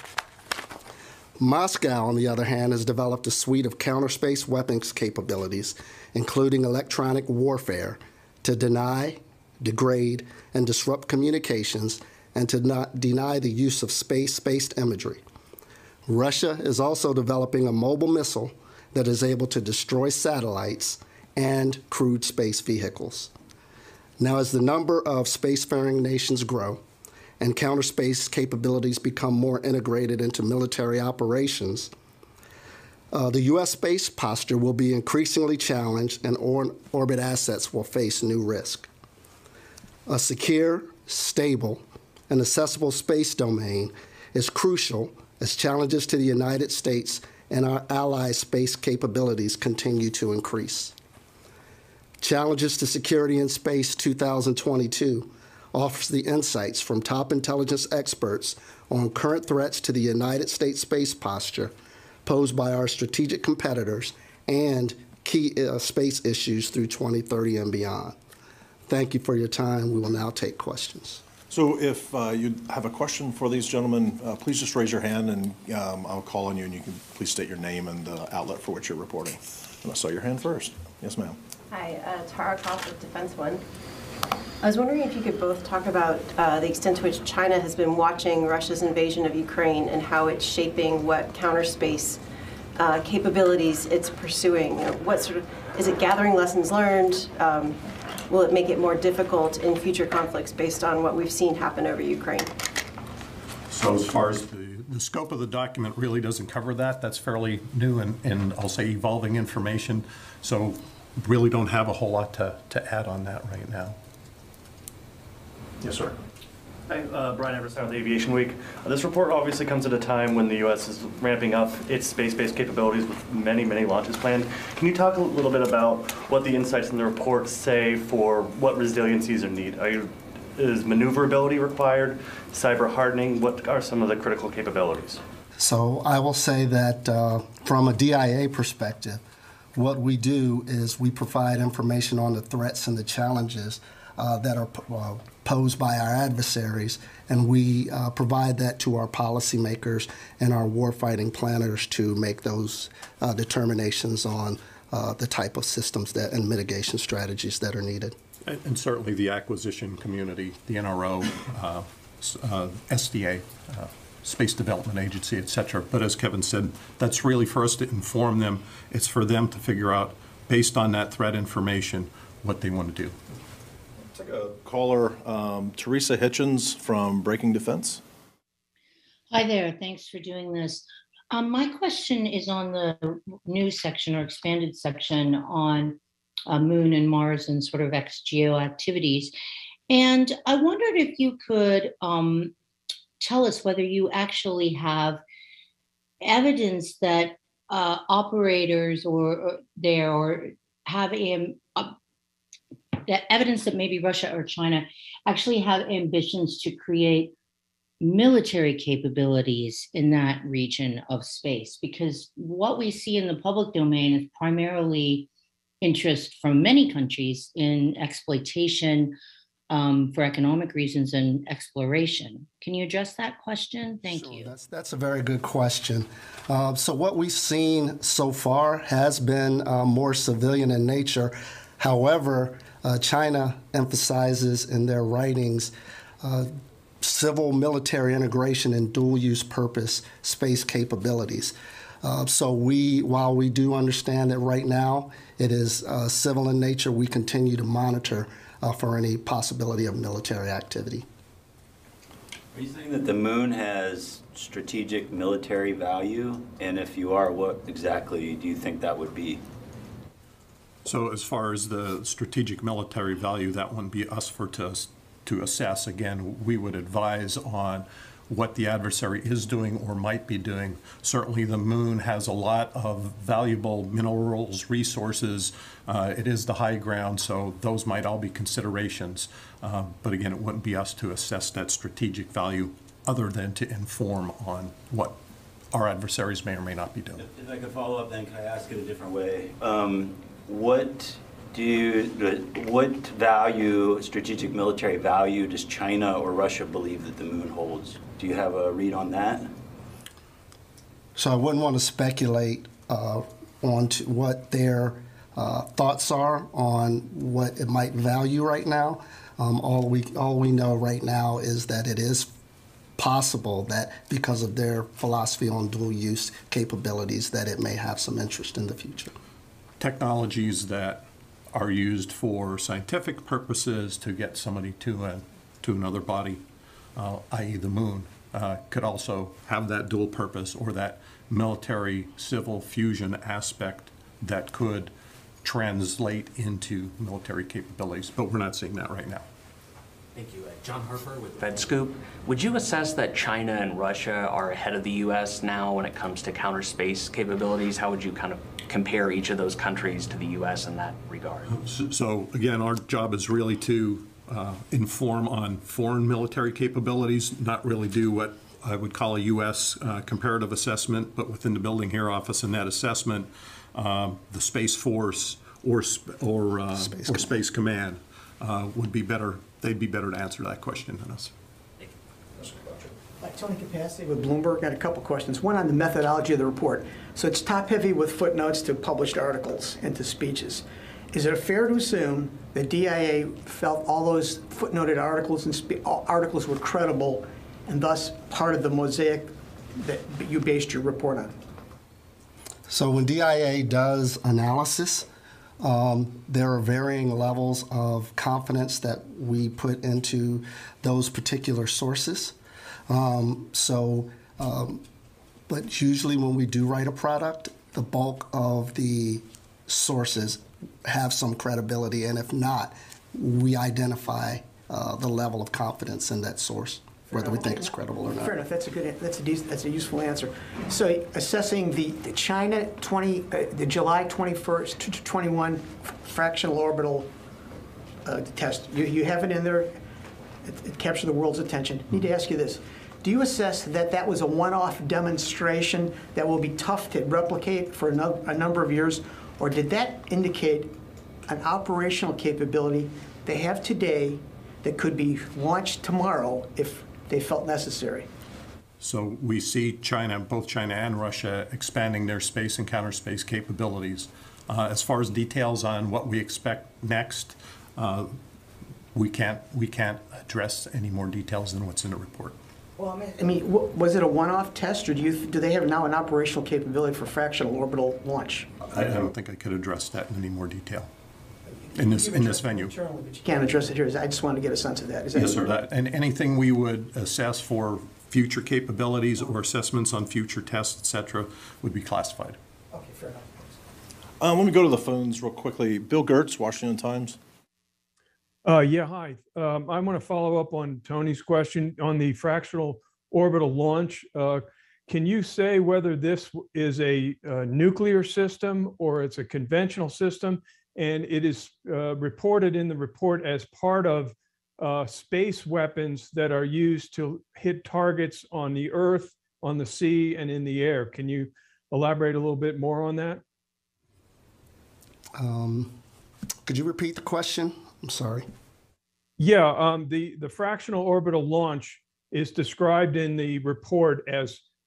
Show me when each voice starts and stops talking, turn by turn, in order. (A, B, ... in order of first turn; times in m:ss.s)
0:01.4-0:15.2 A
0:16.1-0:23.3 A
0:24.2-0:26.8 A
0:27.4-0:31.9 A
0:33.1-0:38.9 A
0:40.1-0:51.0 A
0:52.2-1:01.7 A
1:02.2-1:08.2 A
1:08.9-1:11.2 A
1:11.5-1:21.4 B
1:21.7-1:23.6 C
1:24.6-1:32.2 C
1:32.8-1:42.5 C
1:43.7-1:54.0 D
1:55.8-1:56.1 B
1:56.9-2:15.2 E
2:15.6-2:19.2 A
2:19.7-2:38.2 A
2:38.4-2:53.2 D
2:54.0-2:58.0 B
2:59.3-3:09.3 F
3:09.9-3:12.5 F
3:13.2-3:15.2 F
3:16.2-3:22.0 F
3:23.0-3:27.3 F
3:28.0-3:35.3 F
3:35.8-3:39.2 F
3:39.7-3:44.5 F
3:44.1-4:11.0 A
4:12.5-4:19.4 G
4:20.8-4:45.2 D
4:45.7-4:47.2 D
4:47.2-4:59.5 G
5:01.2-5:12.3 A
5:13.0-5:19.1 A
5:19.8-5:26.4 D
5:27.0-5:39.2 D
5:40.2-5:51.6 H
5:51.5-6:11.3 D
6:06.9-6:07.3 A
6:12.4-6:12.9 B
6:13.2-6:31.3 I
6:32.7-6:35.1 A
6:35.6-6:42.3 A
6:42.9-6:44.8 A
6:45.5-6:58.4 A
6:57.1-7:07.1 I
7:08.0-7:09.8 I
7:10.4-7:28.1 I
7:28.8-7:38.2 D
7:38.9-7:42.4 D
7:42.8-7:48.5 I
7:48.7-7:50.9 D
7:51.5-7:55.4 I
7:51.7-7:52.8 D
7:55.1-8:02.4 D
8:02.7-8:03.6 I
8:04.2-8:07.2 B
8:08.4-8:33.2 J
8:35.2-8:35.8 A
8:36.4-8:38.3 A
8:39.2-8:44.4 J